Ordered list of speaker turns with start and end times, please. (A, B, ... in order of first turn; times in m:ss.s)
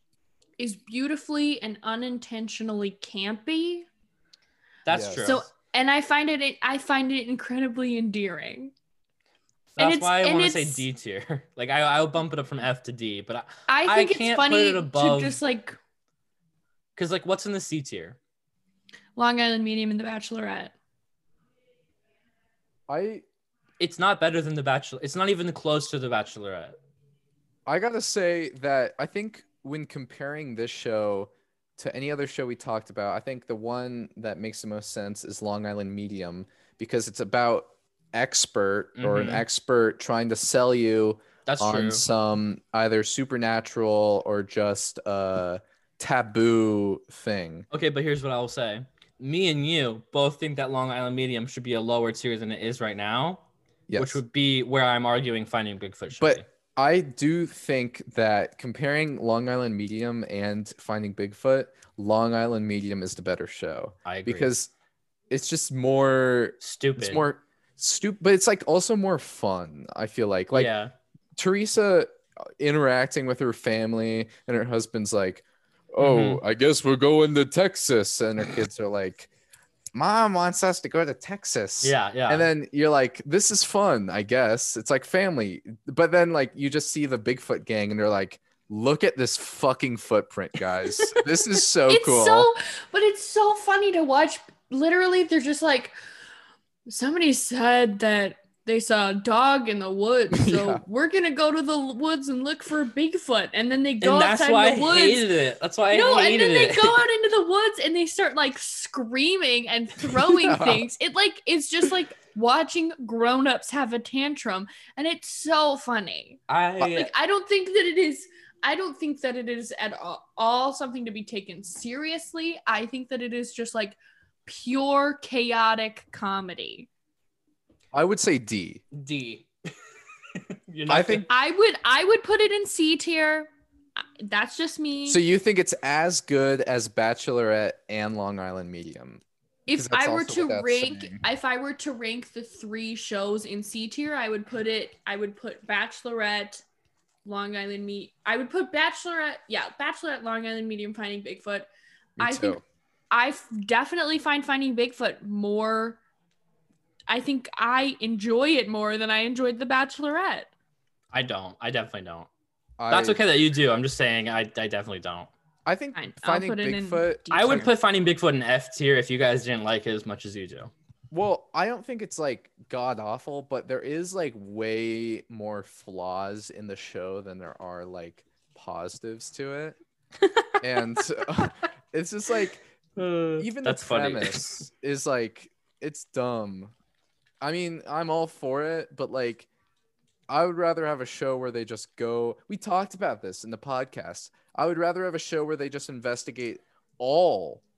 0:00.6-0:03.9 A
0:04.8-0:05.5 B
0:04.9-0:05.4 C
0:05.2-0:08.7 A
0:09.8-0:15.4 B
0:09.8-0:10.8 A
0:13.7-0:15.8 A
0:17.0-0:18.2 B
0:19.2-0:20.7 A
0:22.9-0:23.2 C
0:23.8-0:26.8 B
0:27.7-0:47.7 C
0:39.0-0:39.4 B
0:41.5-0:42.0 B
0:47.7-0:53.4 B
0:53.9-0:54.2 C
0:54.0-0:56.4 B
0:56.2-1:04.7 C
1:04.0-1:04.5 B
1:05.3-1:10.7 C
1:06.6-1:07.3 B
1:10.5-1:10.9 B
1:11.4-1:19.3 C
1:16.0-1:16.4 B
1:19.9-1:32.5 C
1:21.8-1:22.5 B
1:31.9-1:35.9 A
1:36.9-1:45.3 A
1:40.3-1:40.8 C
1:44.0-1:47.1 B
1:45.9-2:06.9 A
1:50.1-1:50.9 C
1:56.5-1:57.1 B
2:07.9-2:08.8 C
2:08.9-2:09.5 B
2:10.5-2:11.3 B
2:10.9-2:11.3 C
2:11.3-2:13.5 A
2:14.2-2:15.2 A
2:15.1-2:19.2 C
2:19.7-2:26.6 A
2:19.7-2:21.2 C
2:27.2-2:36.0 A
2:32.2-2:32.6 C
2:37.1-2:40.5 A
2:41.1-2:42.3 B
2:42.8-2:43.2 C
2:42.9-2:45.3 B
2:45.6-2:47.3 C
2:46.0-2:47.7 A
2:47.3-2:50.7 B
2:51.1-2:59.8 C
3:00.6-3:02.6 C
3:03.0-3:04.7 B
3:03.4-3:06.7 C
3:07.4-3:09.5 C
3:10.3-3:17.6 C